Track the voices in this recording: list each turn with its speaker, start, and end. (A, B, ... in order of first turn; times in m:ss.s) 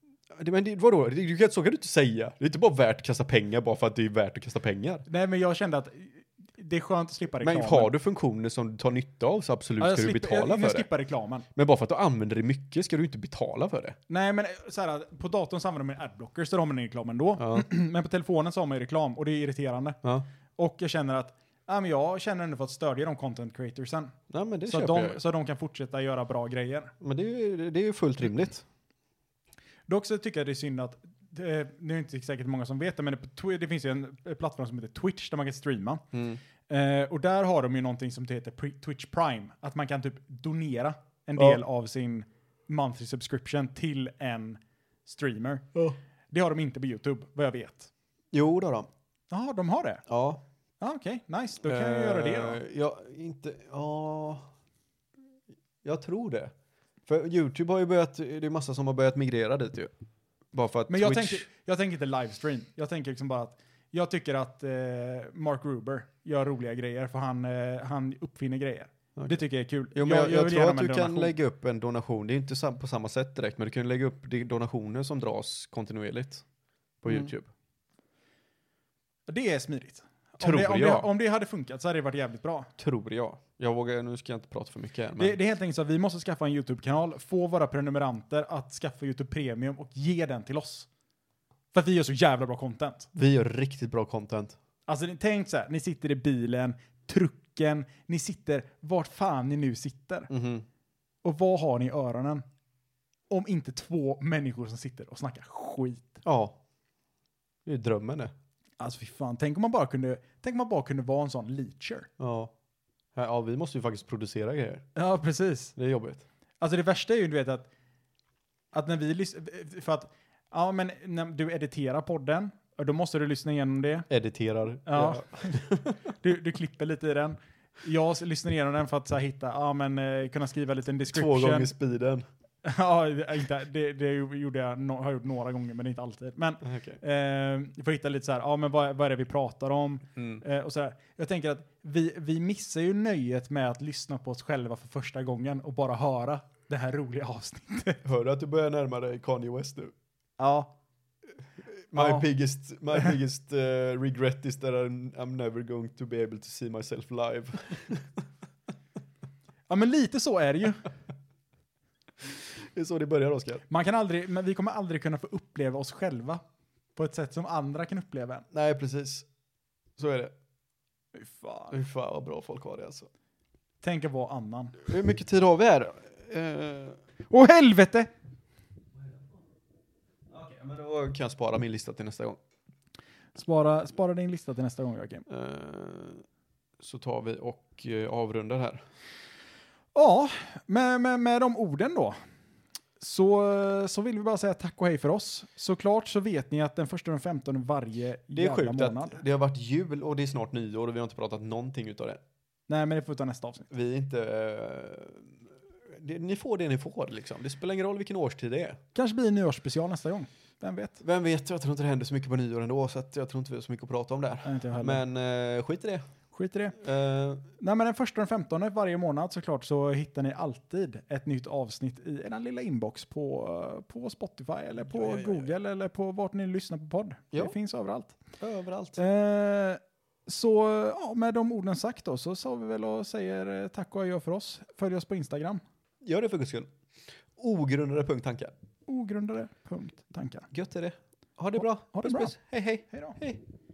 0:00.4-0:05.1 A
0:05.1-0:07.9 B
0:07.4-0:10.9 A
0:09.8-0:11.5 B
0:11.6-0:14.0 A
0:14.1-0:20.0 B
0:17.4-0:17.7 A
0:20.6-0:24.2 B
0:24.3-0:25.2 A
0:24.7-0:26.9 B
0:27.0-0:28.6 A
0:29.9-0:36.0 B
0:36.1-0:36.4 A
0:36.7-0:45.7 B
0:46.3-0:47.9 B
0:48.3-0:48.9 A
0:49.3-0:50.0 B
0:50.1-0:50.4 A
0:50.8-0:52.6 B
0:51.6-0:54.5 A
0:55.8-0:56.5 A
0:57.1-0:59.9 A
1:00.5-1:01.5 A
1:00.9-1:11.4 B
1:09.2-1:09.4 A
1:09.9-1:16.4 A
1:17.0-1:17.5 A
1:19.3-1:22.7 B
1:20.4-1:21.1 A
1:22.8-1:25.4 A
1:25.2-1:30.9 B
1:31.7-1:33.1 B
1:33.1-1:34.6 A
1:34.9-1:40.3 B
1:40.3-1:40.7 A
1:41.2-1:42.4 B
1:43.3-1:46.2 B
1:46.2-1:46.6 A
1:47.7-1:48.3 A
1:48.8-1:52.1 B
1:52.2-1:52.5 A
1:53.2-1:54.9 A
1:55.0-1:55.7 B
1:55.8-1:56.2 A
1:56.6-1:57.7 B
1:58.7-2:04.1 B
2:04.1-2:06.0 A
2:04.9-2:05.6 B
2:06.2-2:11.7 B
2:11.1-2:12.3 A
2:12.6-2:28.0 B
2:16.6-2:17.0 A
2:20.2-2:20.4 A
2:28.0-2:29.9 A
2:30.4-2:30.7 B
2:31.9-2:38.2 A
2:32.0-2:32.3 B
2:39.7-2:40.9 B
2:42.3-2:43.6 A
2:43.7-2:46.4 B
2:47.0-2:48.5 B
2:48.5-2:49.3 A
2:50.0-2:50.3 A
2:51.2-2:51.8 B
2:51.7-2:53.1 A
2:53.8-2:54.8 B
2:54.8-2:57.0 A
2:57.3-2:58.1 B
3:00.3-3:02.4 A
3:03.4-3:05.2 B
3:05.3-3:06.2 A
3:06.8-3:08.8 A
3:10.0-3:12.2 B
3:13.0-3:19.2 B
3:18.3-3:22.2 A
3:22.7-3:23.7 B
3:23.7-3:28.8 A
3:29.0-3:31.0 B
3:31.0-3:36.0 A
3:34.4-3:35.0 B
3:36.3-3:36.8 B
3:36.8-3:37.5 A
3:37.6-3:48.2 B
3:44.9-3:45.5 A
3:48.4-3:49.0 A
3:49.0-3:55.6 B
3:56.0-3:56.7 A
3:57.4-3:58.5 A
3:58.9-4:00.5 B
4:00.5-4:03.4 A
4:01.9-4:02.3 B
4:02.9-4:03.2 B